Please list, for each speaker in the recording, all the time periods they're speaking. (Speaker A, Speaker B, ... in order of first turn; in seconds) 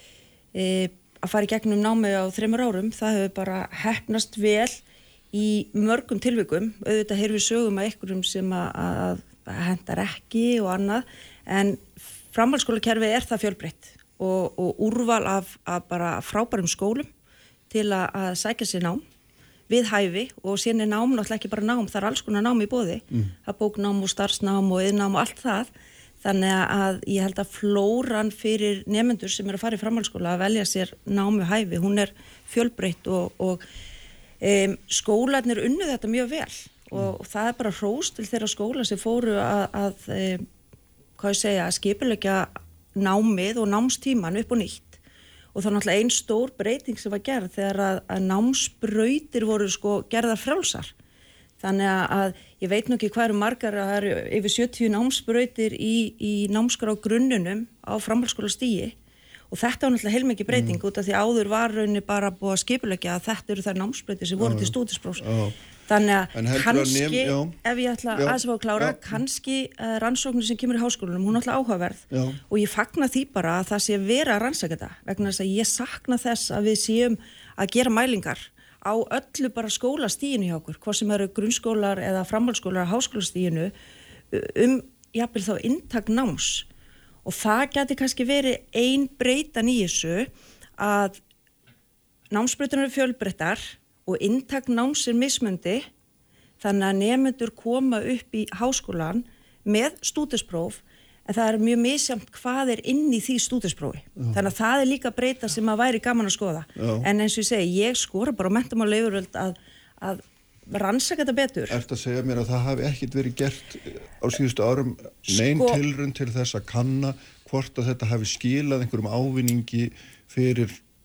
Speaker A: 0.5-4.8, 5.3-17.1, 17.7-19.0, 19.7-25.7, 26.2-33.6, 34.4-40.5, 41.2-45.0, 45.5-50.9, 51.6-59.0, 59.5-65.3, 65.9-83.7, 84.3-86.7, 87.2-91.2, 92.3-95.8, 96.6-111.8, 115.3-115.8
Speaker B: 60.5-60.8, 64.4-65.5, 66.3-67.6, 68.1-69.2, 72.1-72.4, 106.8-107.1, 111.7-120.8